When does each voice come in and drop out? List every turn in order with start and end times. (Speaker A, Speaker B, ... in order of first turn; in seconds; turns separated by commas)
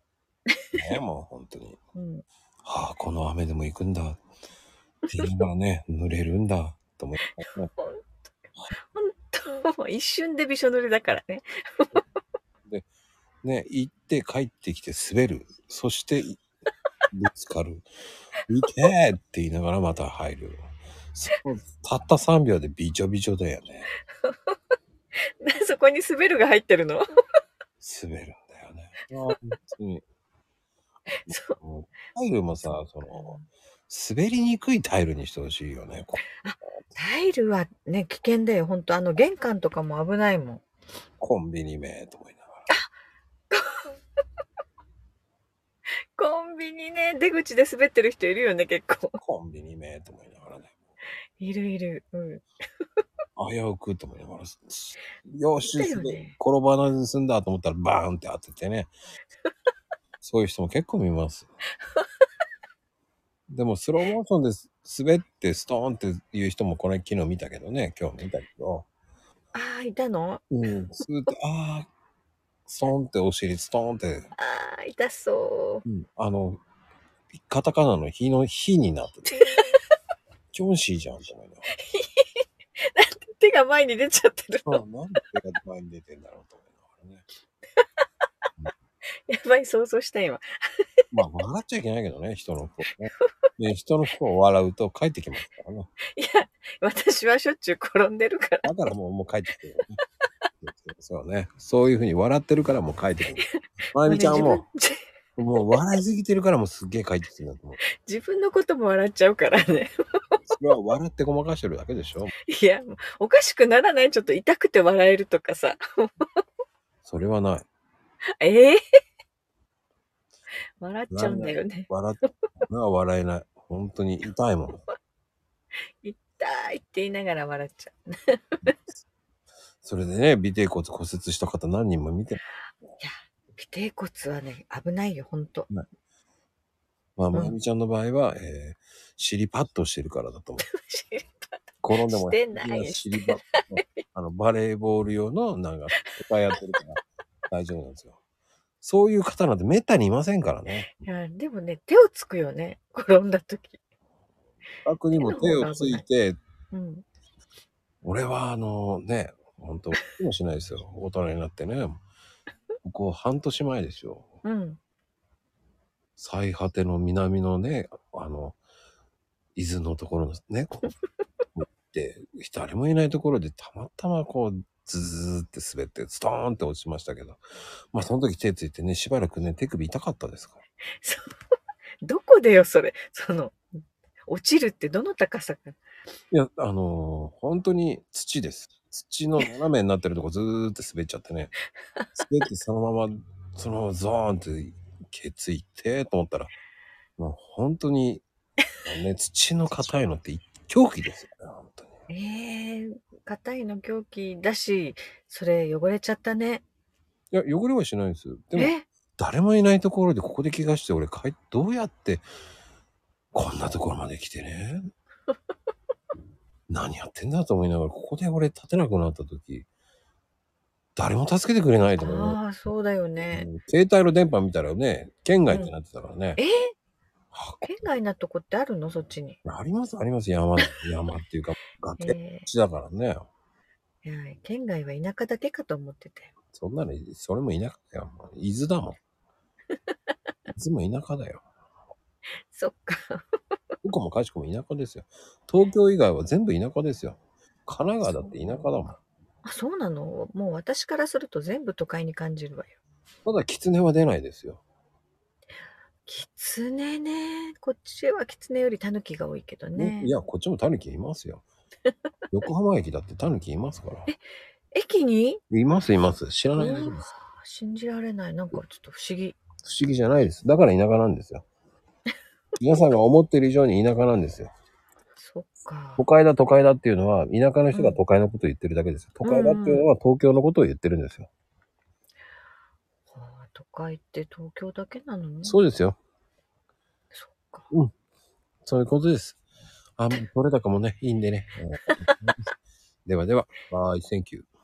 Speaker A: 0.7-1.8, Speaker B: 1.9-2.2, Speaker A: 2.6-4.2, Speaker A: 5.1-7.7, Speaker B: 7.8-8.2, Speaker B: 8.9-12.0, Speaker A: 13.4-16.4, Speaker A: 17.1-17.9, Speaker A: 18.5-20.6, Speaker A: 21.1-23.9, Speaker B: 24.2-24.5, Speaker B: 25.4-27.1, Speaker A: 27.8-30.0, Speaker B: 31.3-31.6, Speaker A: 31.6-33.4, Speaker B: 33.1-33.5, Speaker A: 33.9-36.2, Speaker B: 36.4-40.6, Speaker A: 41.2-42.6, Speaker B: 43.5-44.0, Speaker B: 46.2-49.2, Speaker A: 49.2-50.7, Speaker B: 51.4-52.4, Speaker A: 53.4-58.9, Speaker B: 55.6-56.4, Speaker A: 60.2-61.5, Speaker A: 63.5-68.9, Speaker B: 69.5-70.5, Speaker A: 70.5-71.9, Speaker A: 72.7-74.3, Speaker B: 74.4-75.8, Speaker A: 75.9-76.6, Speaker A: 77.3-79.4, Speaker B: 79.3-79.8, Speaker A: 80.5-81.7, Speaker B: 81.8-84.8, Speaker A: 84.7-87.2, Speaker B: 89.3-90.9, Speaker A: 91.1-95.9, Speaker B: 96.1-98.7, Speaker A: 98.6-100.0, Speaker A: 100.6-104.7, Speaker B: 103.4-105.0, Speaker A: 105.4-107.8, Speaker B: 107.8-110.4, Speaker A: 110.5-112.3, Speaker B: 112.5-116.4, Speaker A: 117.0-117.7, Speaker B: 118.4-118.8, Speaker B: 120.8-122.3, Speaker A: 121.1-124.8, Speaker B: 126.0-128.7, Speaker A: 129.8-132.4, Speaker B: 133.0-135.7, Speaker A: 137.2-140.7, Speaker B: 140.6-143.8, Speaker A: 141.8-148.2, Speaker A: 148.8-150.9, Speaker B: 150.9-153.8, Speaker A: 154.8-156.4, Speaker B: 155.1-156.0, Speaker B: 156.7-157.1, Speaker A: 158.0-162.0, Speaker A: 162.8-164.2, Speaker B: 164.4-164.8, Speaker A: 166.2-168.6, Speaker A: 169.6-170.9, Speaker A: 171.6-177.4, Speaker A: 177.9-180.6, Speaker B: 181.0-181.3, Speaker B: 182.0-183.6, Speaker B: 184.3-185.8, Speaker A: 186.3-191.5, Speaker A: 192.2-196.5, Speaker A: 197.2-198.2, Speaker A: 198.8-201.9, Speaker B: 202.1-206.6, Speaker A: 207.3-212.2, Speaker B: 208.6-208.9, Speaker A: 213.3-214.9, Speaker A: 216.7-219.7, Speaker A: 221.0-222.4, Speaker B: 222.0-223.5, Speaker A: 223.3-226.4, Speaker B: 225.5-225.7, Speaker B: 226.4-226.7, Speaker A: 227.3-227.8, Speaker B: 227.6-229.4, Speaker A: 229.4-233.3, Speaker B: 232.0-232.5, Speaker B: 234.0-236.3, Speaker A: 236.5-239.0, Speaker A: 240.5-241.4, Speaker B: 242.5-243.2, Speaker A: 243.8-249.0, Speaker B: 248.0-248.8, Speaker B: 249.4-252.8, Speaker A: 253.2-254.6, Speaker B: 256.1-260.1, Speaker A: 259.8-261.4, Speaker A: 262.3-264.1, Speaker B: 264.7-265.4, Speaker A: 265.5-267.1, Speaker B: 266.6-269.4, Speaker A: 269.6-271.4, Speaker A: 272.6-274.5, Speaker B: 275.2-276.0, Speaker A: 276.0-281.3, Speaker B: 279.2-279.9, Speaker B: 283.1-285.6, Speaker A: 285.4-286.0, Speaker B: 287.1-287.7, Speaker A: 288.7-289.4, Speaker A: 290.0-292.5, Speaker A: 293.1-294.5